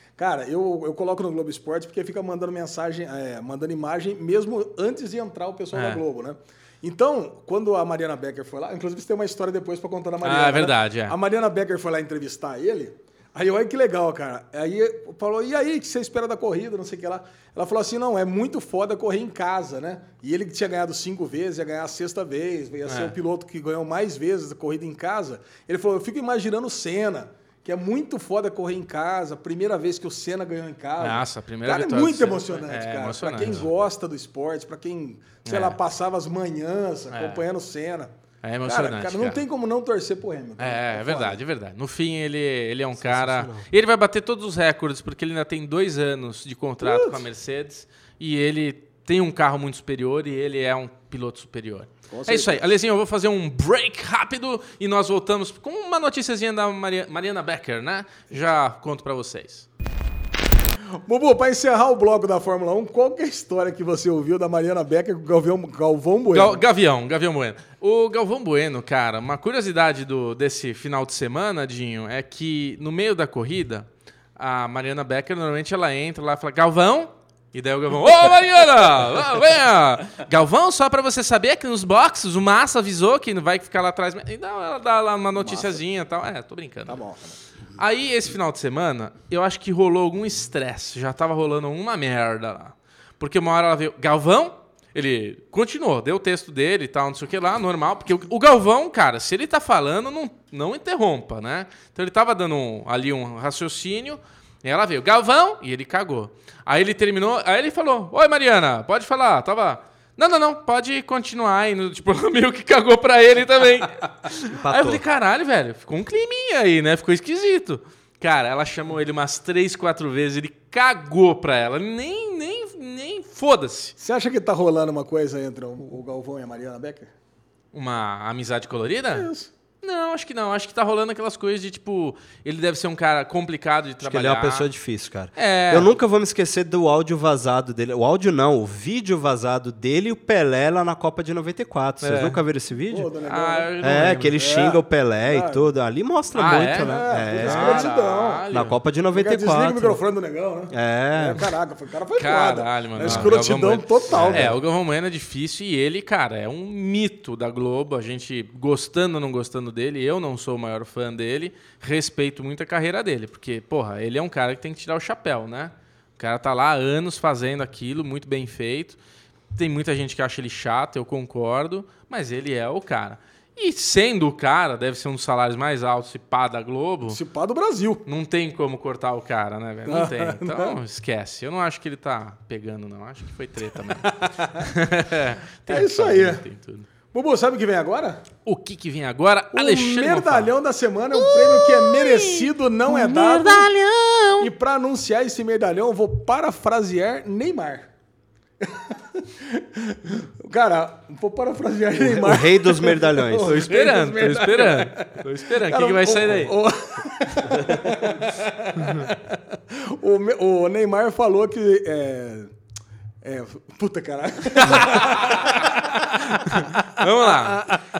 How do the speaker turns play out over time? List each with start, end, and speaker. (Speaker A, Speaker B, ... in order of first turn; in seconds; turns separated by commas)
Speaker A: 0.2-38.1, Speaker B: 5.7-6.0, Speaker B: 10.2-11.2, Speaker B: 22.9-23.1, Speaker B: 31.0-33.6, Speaker B: 35.5-35.8, Speaker B: 37.1-37.4, Speaker B: 38.4-39.4, Speaker A: 38.6-41.4, Speaker B: 40.6-59.7, Speaker C: 43.0-43.6, Speaker A: 46.8-47.2, Speaker A: 52.1-52.6, Speaker A: 61.0-66.6, Speaker B: 66.3-87.0, Speaker A: 85.3-85.8, Speaker A: 86.9-87.4, Speaker B: 87.8-123.9, Speaker C: 114.6-115.0, Speaker A: 124.0-127.1, Speaker B: 127.7-129.3, Speaker A: 129.1-129.5, Speaker B: 129.8-134.7, Speaker C: 134.0-143.1, Speaker B: 135.3-135.9, Speaker B: 142.0-142.4, Speaker A: 142.9-143.7, Speaker B: 143.3-144.4, Speaker C: 143.8-147.9, Speaker A: 144.3-145.7, Speaker B: 146.3-148.8, Speaker A: 146.8-148.4, Speaker C: 148.5-150.0, Speaker A: 149.1-154.5, Speaker C: 150.7-151.4, Speaker B: 152.1-169.0, Speaker C: 153.0-153.3, Speaker C: 154.1-154.6, Speaker B: 169.5-177.2, Speaker A: 177.1-178.0, Speaker B: 178.1-186.9, Speaker A: 179.9-180.8, Speaker A: 183.9-184.7, Speaker A: 185.7-186.4, Speaker A: 187.1-188.2, Speaker B: 188.4-190.5, Speaker A: 189.5-193.7, Speaker B: 191.1-194.5, Speaker A: 194.4-197.9, Speaker A: 198.6-212.5, Speaker C: 202.0-203.7, Speaker B: 203.4-206.6, Speaker A: 213.2-217.8, Speaker B: 214.6-215.6, Speaker B: 216.3-217.7